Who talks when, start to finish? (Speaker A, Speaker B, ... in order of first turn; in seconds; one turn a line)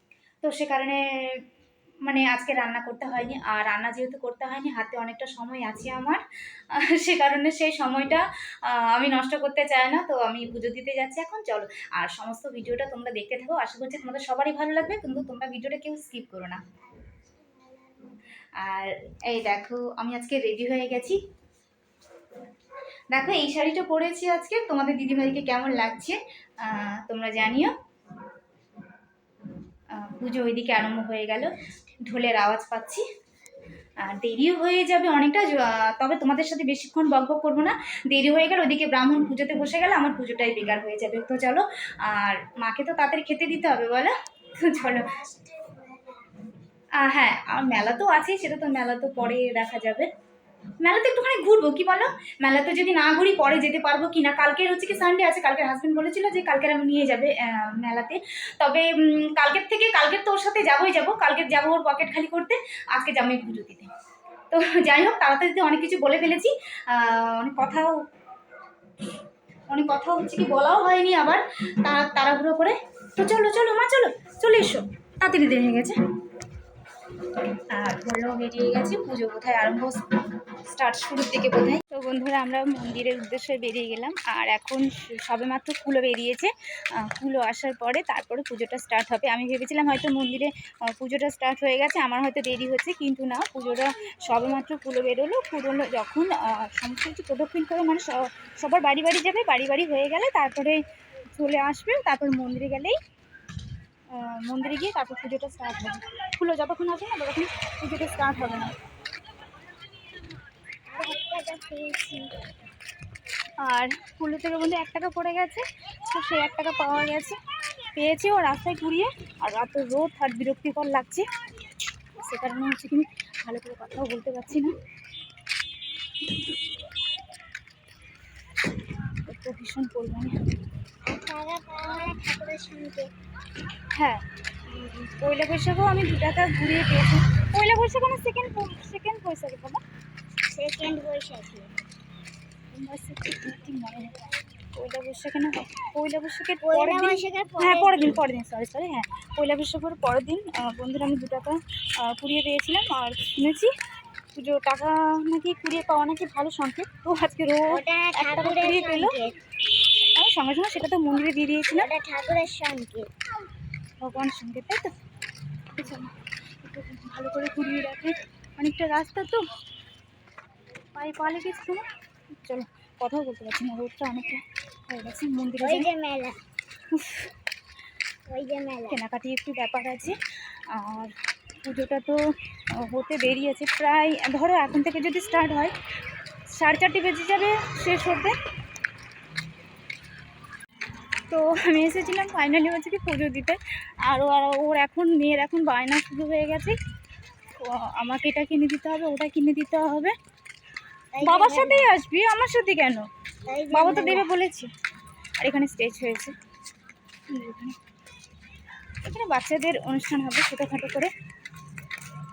Speaker A: 0.4-1.4
Speaker A: 2.0-6.2
Speaker A: 6.7-16.6
Speaker B: 17.6-18.1
Speaker A: 18.6-21.2
Speaker A: 23.1-27.7
Speaker A: 29.9-31.5
Speaker A: 32.0-33.0
Speaker A: 34.0-45.1
Speaker B: 44.8-46.2
Speaker A: 47.0-50.1
Speaker A: 50.8-63.9
Speaker A: 64.5-68.0
Speaker A: 69.7-76.0
Speaker A: 77.7-80.0
Speaker A: 80.7-102.9
Speaker A: 104.1-108.8
Speaker B: 110.9-112.4
Speaker A: 113.6-117.4
Speaker A: 117.9-121.2
Speaker A: 122.2-124.7
Speaker A: 129.3-130.3
Speaker B: 131.1-133.1
Speaker A: 133.9-139.8
Speaker B: 140.5-141.7
Speaker A: 142.7-144.2
Speaker A: 144.7-153.7
Speaker B: 146.6-148.1
Speaker A: 154.3-159.2
Speaker B: 157.7-159.3
Speaker A: 160.1-161.9
Speaker B: 161.7-163.1
Speaker A: 164.0-164.9
Speaker A: 165.7-169.4
Speaker A: 170.9-171.8
Speaker A: 172.4-175.9
Speaker B: 175.6-176.4
Speaker A: 176.9-177.3
Speaker B: 178.3-179.0
Speaker A: 178.9-180.1
Speaker A: 180.7-181.1
Speaker A: 181.6-182.2
Speaker A: 182.8-185.7
Speaker A: 186.6-188.3
Speaker A: 191.3-196.7
Speaker A: 197.6-200.1
Speaker B: 201.1-201.9
Speaker A: 201.2-203.1
Speaker B: 203.5-204.2
Speaker A: 203.7-204.7
Speaker A: 205.4-206.3
Speaker A: 207.3-207.8
Speaker A: 209.0-211.1